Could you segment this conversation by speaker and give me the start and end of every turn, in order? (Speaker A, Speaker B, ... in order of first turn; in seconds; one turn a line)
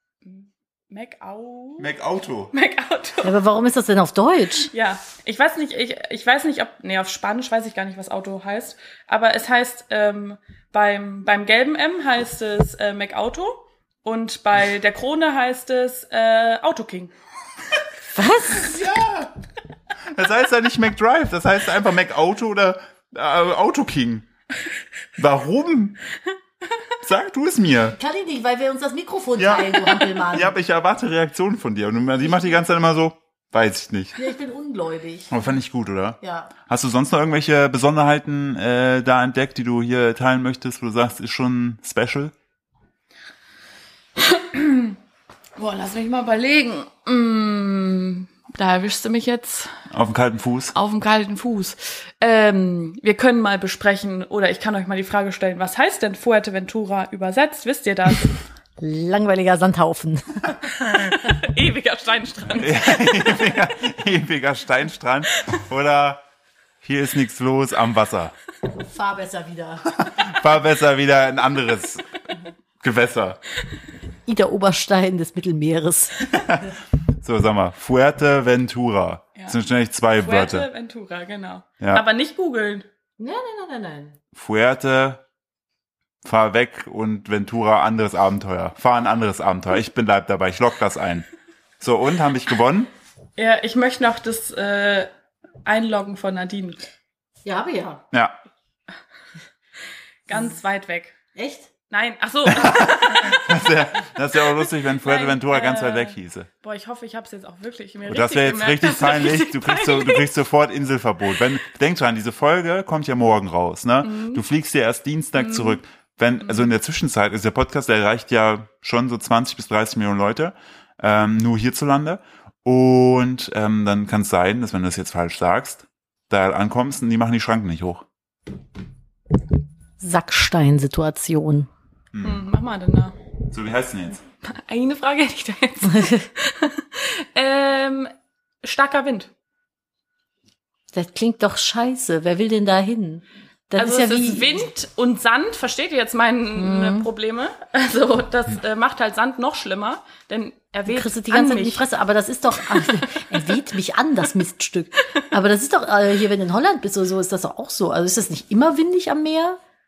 Speaker A: 0.2-1.9
Speaker B: 1.8-2.5
Speaker A: 2.5-3.4
Speaker C: 3.2-4.7
Speaker A: 4.7-17.1
Speaker C: 18.1-18.8
Speaker B: 18.5-19.3
Speaker B: 20.1-24.3
Speaker B: 25.2-26.0
Speaker B: 27.0-27.9
Speaker C: 27.9-30.5
Speaker B: 29.4-34.2
Speaker C: 34.1-35.3
Speaker B: 35.3-42.3
Speaker C: 36.2-36.5
Speaker A: 44.2-45.0
Speaker A: 45.5-49.7
Speaker B: 49.9-50.7
Speaker A: 50.7-58.4
Speaker C: 58.8-60.6
Speaker A: 60.8-63.6
Speaker B: 62.5-66.2
Speaker B: 66.8-68.3
Speaker C: 68.7-70.0
Speaker B: 69.9-72.0
Speaker B: 72.8-73.4
Speaker C: 74.2-76.6
Speaker B: 76.3-76.6
Speaker B: 77.2-80.7
Speaker A: 80.2-82.9
Speaker B: 81.8-82.0
Speaker C: 83.2-84.2
Speaker B: 84.3-85.2
Speaker B: 86.2-91.3
Speaker B: 91.8-92.9
Speaker A: 93.4-95.1
Speaker A: 95.6-96.8
Speaker C: 97.4-98.0
Speaker A: 100.3-101.1
Speaker C: 101.3-101.7
Speaker A: 101.9-103.5
Speaker B: 102.5-106.5
Speaker A: 105.0-110.3
Speaker B: 108.1-128.0
Speaker A: 114.0-114.4
Speaker A: 115.3-115.8
Speaker C: 130.0-131.7
Speaker B: 132.1-132.4
Speaker A: 132.2-133.1
Speaker B: 133.5-134.2
Speaker A: 134.4-139.3
Speaker C: 135.9-136.2
Speaker C: 140.9-144.7
Speaker A: 143.8-151.8
Speaker C: 146.6-147.1
Speaker C: 150.9-159.6